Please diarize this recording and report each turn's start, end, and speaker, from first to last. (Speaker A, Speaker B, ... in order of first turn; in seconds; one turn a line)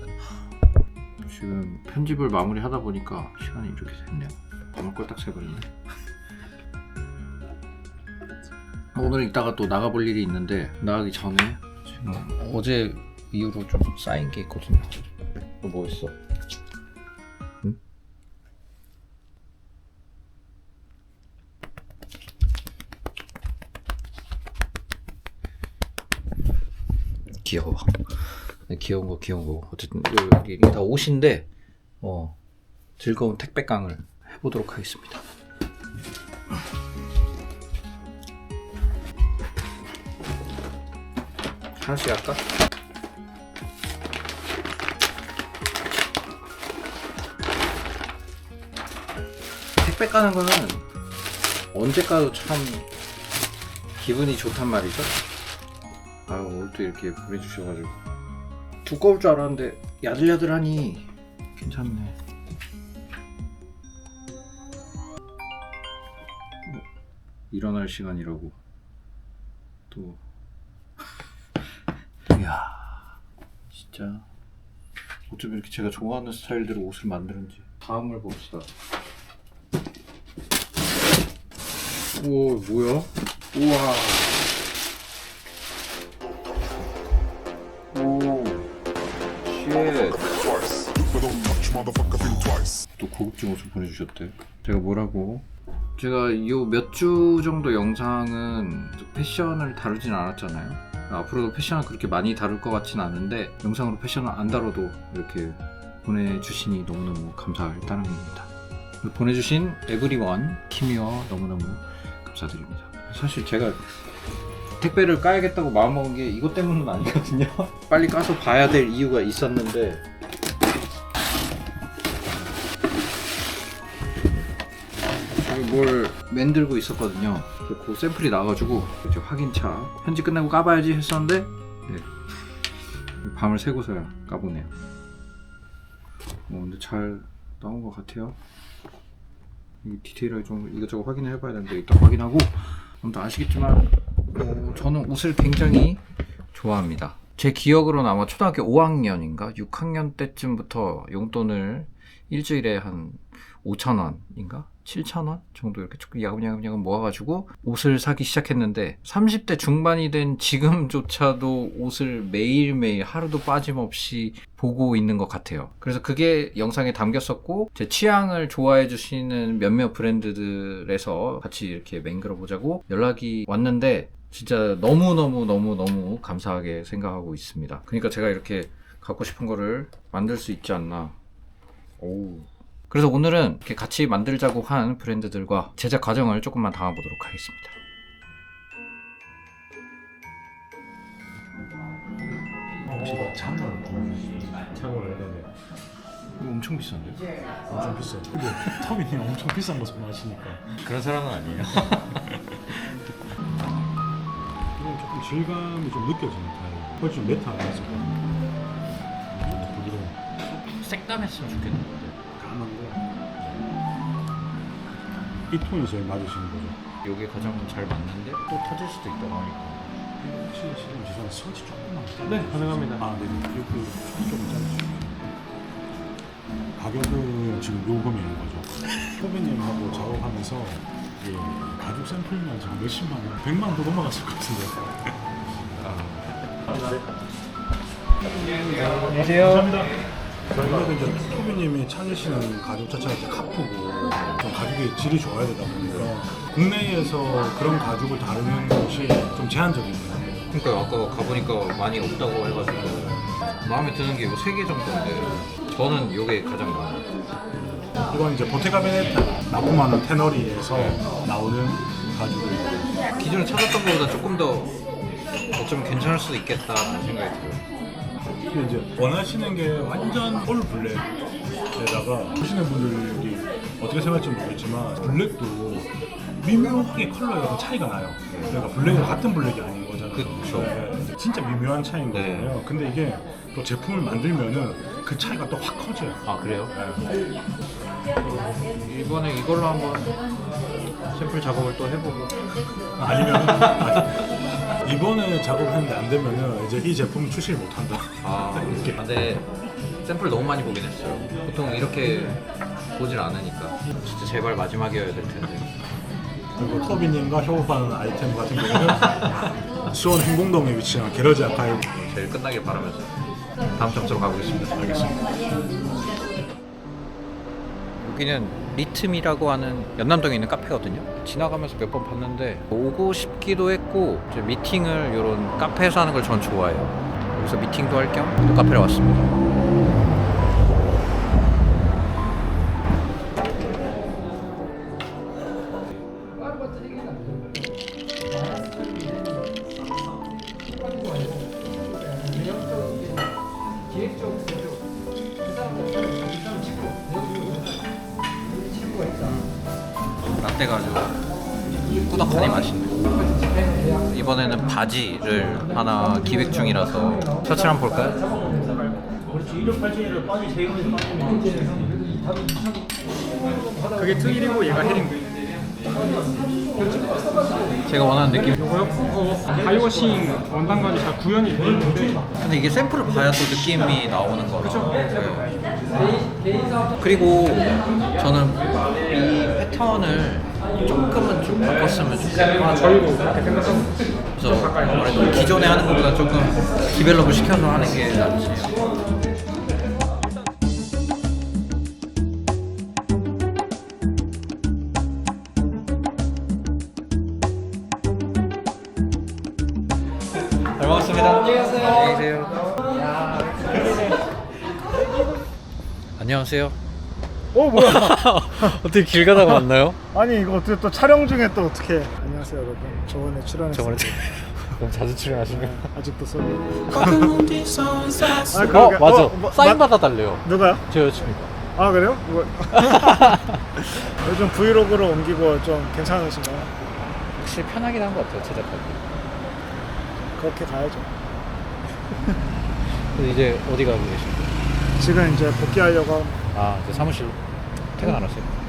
Speaker A: 1.2-5.7
Speaker A: 8.9-15.0
Speaker A: 15.6-16.1
Speaker A: 27.4-31.5
Speaker A: 32.0-32.4
Speaker A: 33.0-35.2
Speaker A: 41.7-42.4
Speaker A: 49.8-50.8
Speaker A: 51.7-52.9
Speaker A: 54.0-55.1
Speaker A: 56.3-58.0
Speaker A: 58.8-62.1
Speaker A: 67.5-68.5
Speaker A: 69.9-70.2
Speaker A: 72.3-73.2
Speaker A: 73.7-74.2
Speaker A: 75.3-78.7
Speaker A: 82.1-84.5
Speaker A: 87.9-88.7
Speaker A: 89.4-90.3
Speaker A: 92.0-95.5
Speaker A: 96.0-108.5
Speaker A: 109.0-114.0
Speaker A: 114.8-120.0
Speaker A: 125.3-132.1
Speaker A: 133.2-134.7
Speaker A: 136.5-138.4
Speaker A: 139.8-146.0
Speaker A: 146.5-181.1
Speaker A: 182.0-187.8
Speaker B: 192.8-195.5
Speaker A: 196.4-197.2
Speaker B: 197.7-200.8
Speaker A: 200.8-203.1
Speaker B: 204.8-208.2
Speaker B: 209.3-210.2
Speaker A: 210.4-212.2
Speaker B: 212.3-213.1
Speaker B: 215.4-216.8
Speaker A: 217.0-219.9
Speaker B: 220.2-225.3
Speaker B: 226.8-235.1
Speaker A: 235.8-236.2
Speaker B: 238.5-240.0
Speaker A: 239.2-239.7
Speaker B: 240.5-250.4
Speaker A: 250.5-257.1
Speaker B: 257.8-263.0
Speaker A: 260.7-261.0
Speaker A: 263.1-264.7
Speaker A: 265.5-267.6
Speaker B: 268.5-271.1
Speaker B: 271.7-286.2
Speaker A: 280.1-280.8
Speaker A: 282.1-282.5
Speaker A: 286.2-286.7
Speaker B: 286.7-287.0
Speaker A: 288.8-290.1
Speaker A: 291.1-292.4
Speaker B: 293.0-294.2
Speaker A: 293.2-293.8
Speaker B: 294.8-299.0
Speaker A: 298.2-299.4
Speaker A: 300.0-302.4
Speaker A: 302.9-305.7
Speaker B: 306.6-309.3
Speaker B: 309.9-311.9
Speaker A: 311.9-313.1
Speaker A: 313.7-314.9
Speaker B: 314.7-315.2
Speaker A: 318.0-329.3
Speaker A: 349.0-349.5
Speaker A: 350.2-351.2
Speaker A: 351.9-353.3
Speaker A: 354.0-358.2
Speaker C: 364.0-365.2
Speaker A: 367.9-369.0
Speaker C: 369.1-372.2
Speaker A: 372.4-375.5
Speaker A: 377.0-383.6
Speaker A: 384.4-388.7
Speaker A: 400.7-402.8
Speaker A: 406.2-406.8
Speaker D: 407.5-408.8
Speaker A: 407.7-410.0
Speaker D: 410.1-414.2
Speaker A: 413.7-415.9
Speaker D: 415.5-417.5
Speaker A: 416.9-421.5
Speaker D: 418.4-419.8
Speaker D: 420.4-420.8
Speaker D: 421.7-423.1
Speaker A: 422.7-423.6
Speaker D: 424.2-426.7
Speaker A: 427.3-429.1
Speaker D: 430.4-431.1
Speaker A: 432.8-434.6
Speaker D: 435.0-436.4
Speaker A: 436.5-437.4
Speaker A: 437.9-438.5